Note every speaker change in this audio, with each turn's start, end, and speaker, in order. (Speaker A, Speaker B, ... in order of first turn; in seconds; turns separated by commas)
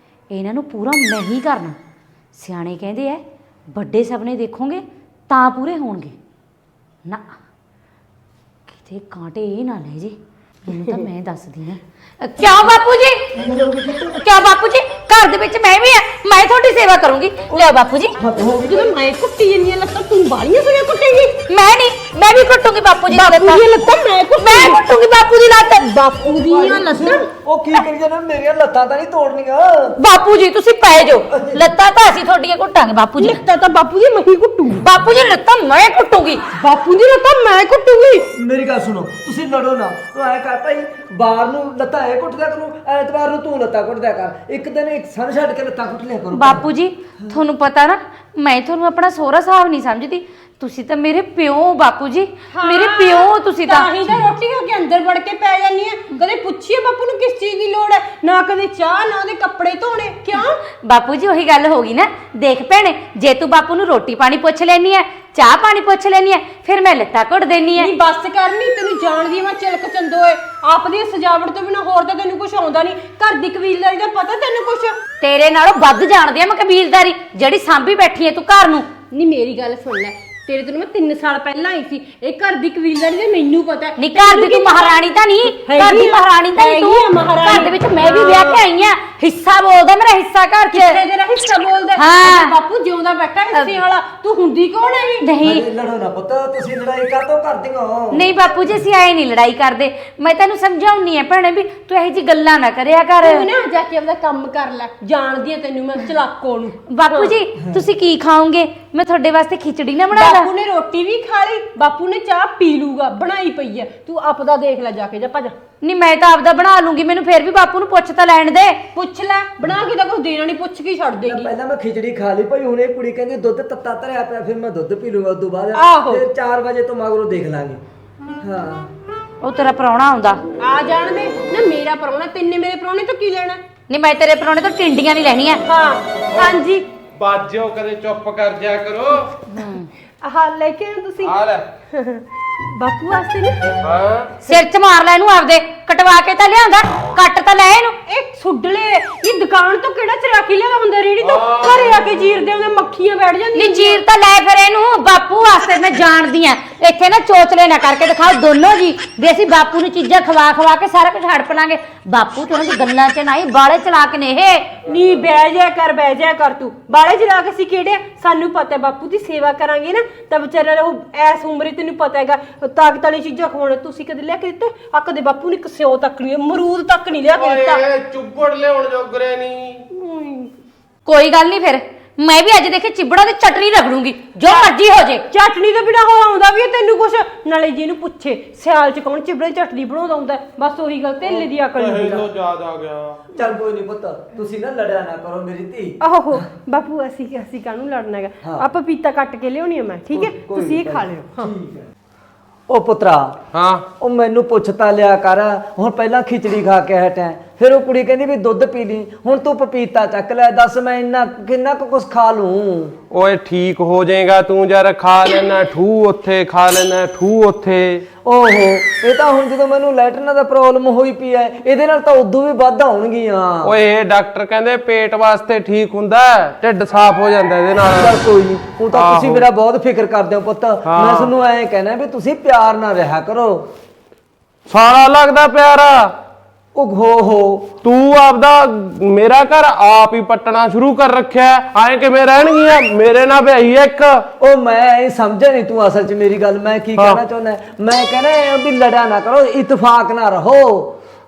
Speaker A: 0.3-1.8, Speaker A: 2.3-6.2, Speaker A: 7.0-7.3, Speaker A: 8.7-13.3, Speaker B: 10.8-11.0, Speaker B: 13.3-14.2, Speaker A: 14.2-18.1, Speaker B: 17.5-18.9, Speaker C: 18.6-21.4, Speaker A: 21.5-23.7, Speaker C: 23.1-24.8, Speaker A: 24.4-27.0, Speaker C: 26.0-27.3, Speaker B: 26.5-30.0, Speaker A: 30.0-33.4, Speaker B: 31.3-31.6, Speaker C: 33.2-34.9, Speaker A: 34.8-36.5, Speaker C: 36.5-38.3, Speaker B: 38.3-46.7, Speaker A: 46.4-54.0, Speaker C: 52.5-60.6, Speaker A: 60.8-67.9, Speaker C: 67.8-75.0, Speaker A: 75.2-78.8, Speaker C: 79.1-88.6, Speaker A: 84.0-91.0, Speaker C: 90.7-95.3, Speaker A: 92.0-92.5, Speaker A: 93.5-93.8, Speaker A: 95.2-95.6, Speaker B: 95.4-98.3, Speaker A: 98.1-103.4, Speaker C: 103.2-107.4, Speaker A: 106.9-110.5, Speaker C: 110.1-115.6, Speaker A: 115.8-118.8, Speaker C: 118.9-121.5, Speaker B: 121.2-127.8, Speaker C: 125.8-126.2, Speaker B: 128.4-128.9, Speaker A: 129.4-130.4, Speaker C: 130.6-133.6, Speaker A: 133.9-135.6, Speaker C: 135.7-136.9, Speaker D: 137.2-139.3, Speaker A: 139.5-139.9, Speaker C: 140.2-141.4, Speaker D: 141.2-141.6, Speaker C: 141.9-143.8, Speaker D: 143.8-144.3, Speaker A: 144.4-148.0, Speaker C: 148.1-154.0, Speaker D: 151.2-152.0, Speaker A: 153.5-164.7, Speaker C: 164.8-177.8, Speaker D: 177.3-179.8, Speaker C: 179.9-180.5, Speaker A: 181.1-185.2, Speaker C: 184.4-184.8, Speaker C: 185.3-192.3, Speaker D: 191.8-193.2, Speaker B: 193.3-196.0, Speaker C: 196.0-201.5, Speaker B: 200.1-201.9, Speaker B: 202.7-203.4, Speaker D: 203.5-203.8, Speaker B: 204.0-213.0, Speaker D: 213.1-218.0, Speaker B: 218.2-223.8, Speaker D: 223.6-228.2, Speaker B: 227.9-233.7, Speaker D: 228.9-229.5, Speaker D: 230.8-231.3, Speaker D: 234.7-236.1, Speaker B: 236.7-237.7, Speaker D: 237.8-244.2, Speaker B: 244.4-250.9, Speaker D: 247.0-247.2